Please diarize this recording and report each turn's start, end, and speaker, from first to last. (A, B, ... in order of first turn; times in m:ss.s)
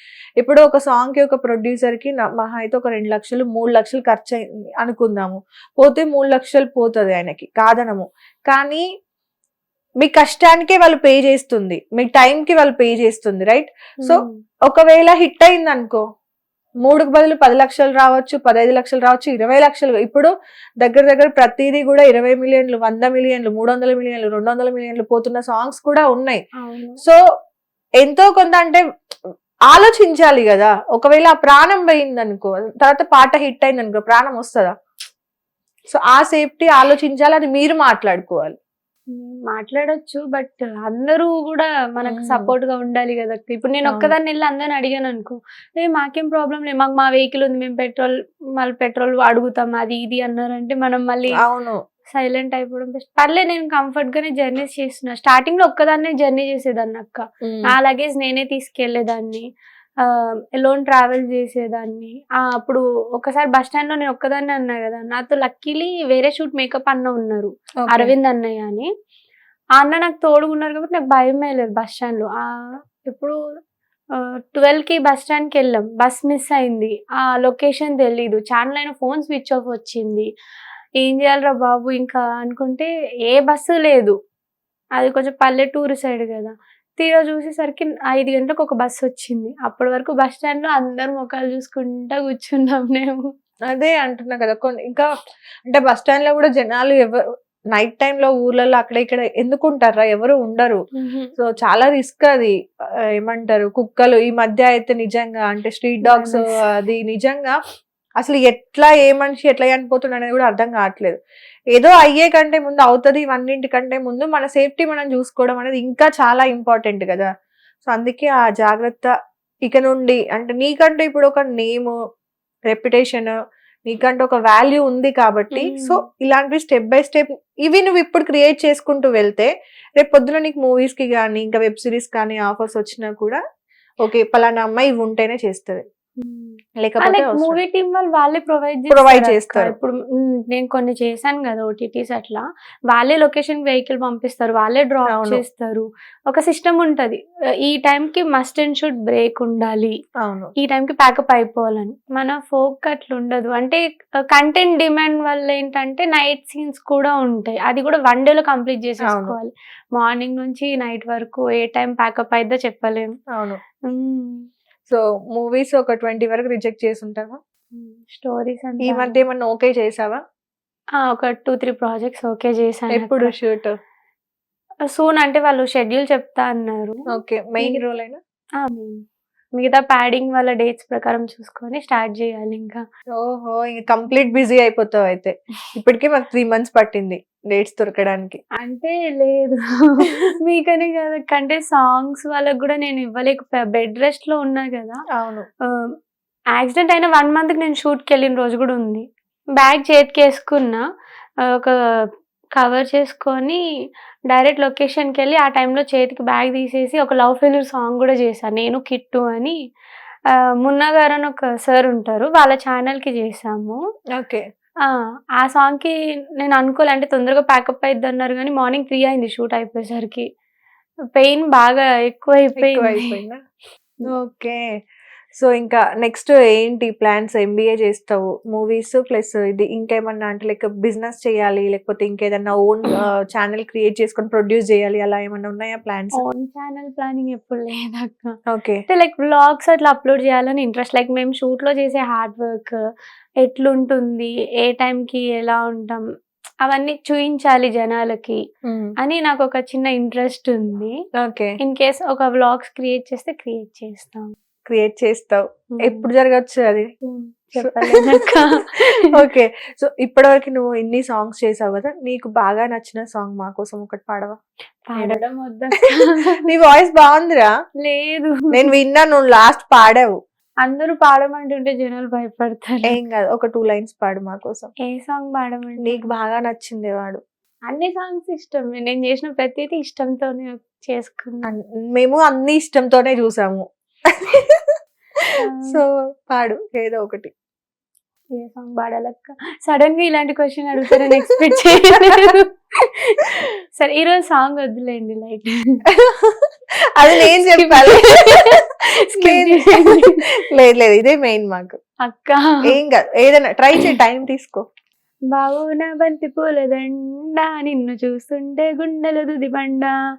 0:00.4-0:08.8 A
0:10.0-0:16.0 A
0:14.0-0:14.4 B
0:16.8-0:26.4 A
0:26.6-0:27.0 B
0:28.0-0:28.8 A
0:29.7-0:34.7 A
0:35.9-0:38.6 A
0:39.1-0:51.4 B
0:42.1-0:42.5 A
0:43.8-0:44.2 A
0:51.4-0:51.8 A
0:52.1-0:59.4 B
1:00.0-1:08.9 B
1:07.8-1:08.1 A
1:09.8-1:12.5 B
1:13.1-1:13.3 B
1:14.5-1:20.3 B
1:21.0-1:24.2 B
1:25.0-1:33.2 B
1:33.7-1:35.0 A
1:35.7-1:37.2 A
1:37.7-1:40.8 A
1:41.0-1:41.3 B
1:41.4-1:42.5 A
1:43.2-1:47.6 A
1:46.0-1:46.4 B
1:48.2-1:51.2 A
1:51.7-1:57.3 A
1:57.9-1:59.1 A
1:59.6-2:01.9 A
2:02.7-2:03.3 A
2:03.9-2:13.4 A
2:05.5-2:06.0 B
2:14.0-2:15.8 A
2:16.2-2:20.0 B
2:16.8-2:17.6 A
2:18.9-2:19.8 A
2:20.5-2:29.9 B
2:25.1-2:25.4 A
2:30.2-2:30.5 A
2:30.6-2:33.8 B
2:34.3-2:43.1 B
2:39.1-2:39.4 A
2:43.3-2:43.6 A
2:43.9-2:44.4 B
2:44.9-2:47.4 A
2:47.7-2:49.1 B
2:48.8-2:50.2 A
2:51.0-2:53.3 B
2:52.9-2:53.8 A
2:54.9-2:57.1 B
2:57.1-2:58.2 A
2:58.6-2:59.0 B
2:59.6-3:02.8 B
3:03.1-3:08.4 A
3:08.6-3:15.0 B
3:15.2-3:15.5 A
3:16.6-3:19.0 B
3:19.6-3:20.8 B
3:22.6-3:23.6 B
3:24.3-3:29.6 B
3:30.6-3:33.8 B
3:34.1-3:34.4 A
3:35.4-3:40.2 B
3:41.2-3:43.2 B
3:42.6-3:43.4 A
3:44.1-3:44.6 A
3:45.4-3:56.2 A
3:56.2-3:58.3 B
3:58.5-3:58.8 A
3:58.9-4:02.8 B
4:03.4-4:06.0 B
4:06.6-4:08.4 B
4:08.7-4:08.9 A
4:09.0-4:10.9 B
4:11.2-4:11.6 A
4:11.6-4:14.3 B
4:14.7-4:16.9 A
4:15.8-4:16.0 B
4:17.1-4:18.8 B
4:17.6-4:24.4 A
4:24.9-4:26.3 B
4:25.0-4:25.2 A
4:26.4-4:27.5 A
4:27.8-4:28.5 B
4:28.5-4:30.2 A
4:30.6-4:33.0 B
4:32.8-4:34.7 A
4:34.9-4:36.0 B
4:35.8-4:37.2 A
4:37.7-4:41.5 B
4:41.5-4:44.8 A
4:45.4-4:45.8 B
4:45.6-4:47.3 A
4:48.4-4:52.6 B
4:53.1-4:55.5 B
4:55.9-4:56.4 A
4:57.0-4:58.6 A
4:57.4-5:00.2 B
4:59.2-5:01.8 A
5:02.0-5:02.6 B
5:02.7-5:04.6 A
5:05.3-5:09.9 B